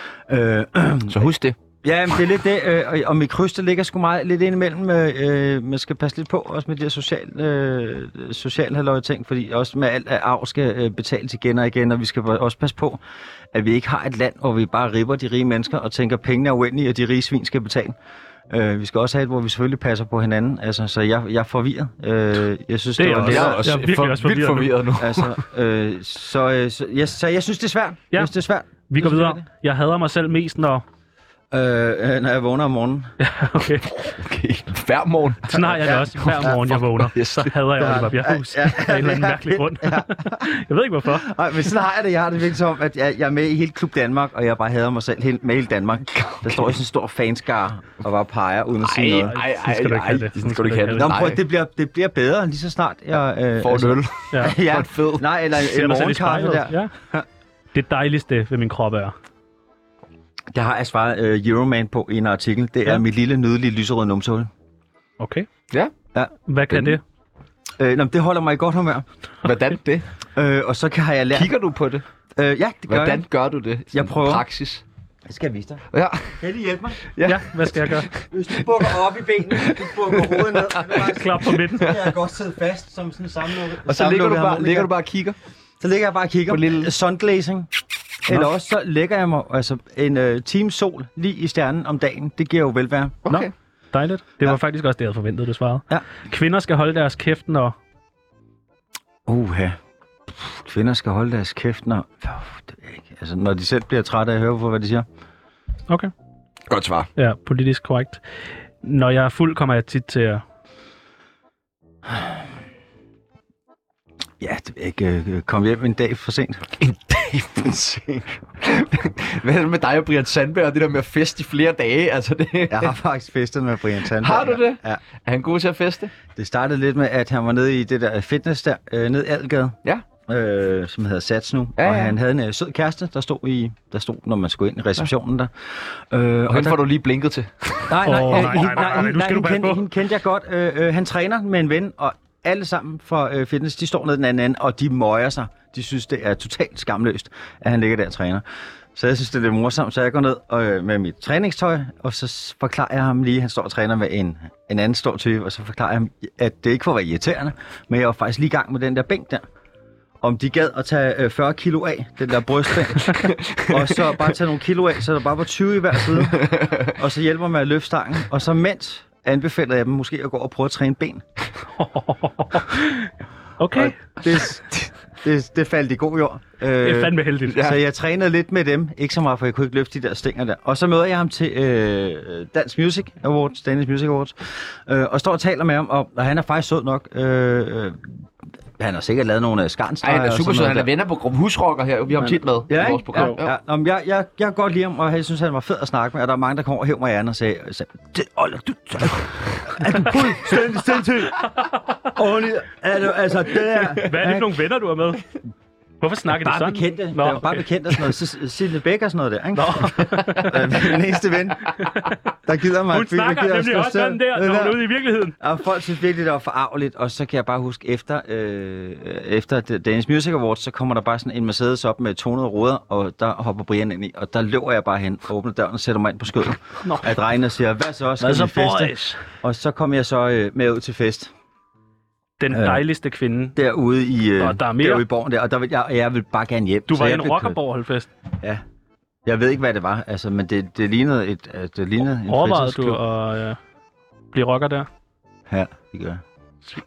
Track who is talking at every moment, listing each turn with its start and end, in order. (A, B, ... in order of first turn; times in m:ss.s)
0:00.3-0:01.3 A
0:01.1-0:01.6 B
0:01.8-0:13.0 A
0:13.5-0:18.0 A
0:18.5-0:23.6 A
0:23.0-0:24.7 C
0:23.1-0:25.4 B
0:25.0-0:29.4 A
0:28.9-0:30.8 C
0:31.5-0:33.1 A
0:33.2-0:34.0 C
0:34.0-0:37.5 B
0:35.5-0:41.3 C
0:35.6-0:36.5 A
0:37.8-0:40.5 A
0:41.1-0:49.4 A
0:46.1-0:46.8 B
0:48.8-0:51.4 B
0:49.3-0:51.1 C
0:51.0-0:57.2 A
0:53.6-0:55.2 B
0:54.3-0:54.6 C
0:55.5-0:56.9 C
0:57.7-0:59.1 C
1:00.5-1:04.5 A
1:05.2-1:05.5 C
1:06.1-1:07.0 A
1:06.5-1:07.0 C
1:07.8-1:09.0 A
1:09.4-1:10.1 B
1:10.3-1:11.5 A
1:11.3-1:12.0 B
1:12.4-1:13.2 A
1:12.9-1:14.8 B
1:13.9-1:14.4 A
1:15.2-1:15.8 A
1:15.9-1:16.4 B
1:16.4-1:17.0 A
1:17.0-1:18.9 B
1:17.2-1:18.1 C
1:18.3-1:24.9 A
1:19.5-1:21.0 B
1:20.9-1:22.0 C
1:23.8-1:25.4 B
1:25.8-1:27.7 A
1:26.5-1:26.9 B
1:28.2-1:33.2 A
1:33.2-1:33.5 B
1:33.3-1:37.7 C
1:39.2-1:39.8 A
1:40.3-1:45.0 A
1:46.7-1:47.1 B
1:47.2-1:48.2 C
1:48.8-1:50.4 C
1:54.4-1:56.7 A
1:56.8-2:03.0 B
2:02.7-2:05.0 A
2:04.0-2:06.1 B
2:06.3-2:16.8 A
2:11.8-2:12.2 B
2:16.5-2:18.8 B
2:17.9-2:28.4 A
2:18.0-2:19.8 C
2:28.9-2:39.4 A
2:40.2-2:51.2 A
2:43.0-2:44.2 B
2:46.2-2:46.8 B
2:51.8-2:54.0 C
2:53.7-3:08.1 A
2:56.8-2:57.7 C
2:57.4-2:57.8 B
3:08.8-3:10.9 A
3:10.0-3:13.5 B
3:12.7-3:21.4 A
3:13.1-3:13.4 C
3:22.1-3:24.5 A
3:23.9-3:25.3 C
3:26.0-3:28.1 C
3:26.4-3:31.7 A
3:29.5-3:31.0 C
3:31.7-3:32.3 C
3:32.4-3:34.8 A
3:32.9-3:35.4 C
3:35.4-3:51.3 A
3:46.8-3:47.2 C
3:48.2-3:49.2 C
3:52.4-3:53.6 C
3:52.5-3:52.8 A
3:53.5-3:57.6 A
3:54.4-3:55.0 C
3:56.9-3:58.1 C
3:59.2-4:03.0 A
4:02.3-4:03.6 C
4:04.3-4:04.9 C
4:05.5-4:06.2 A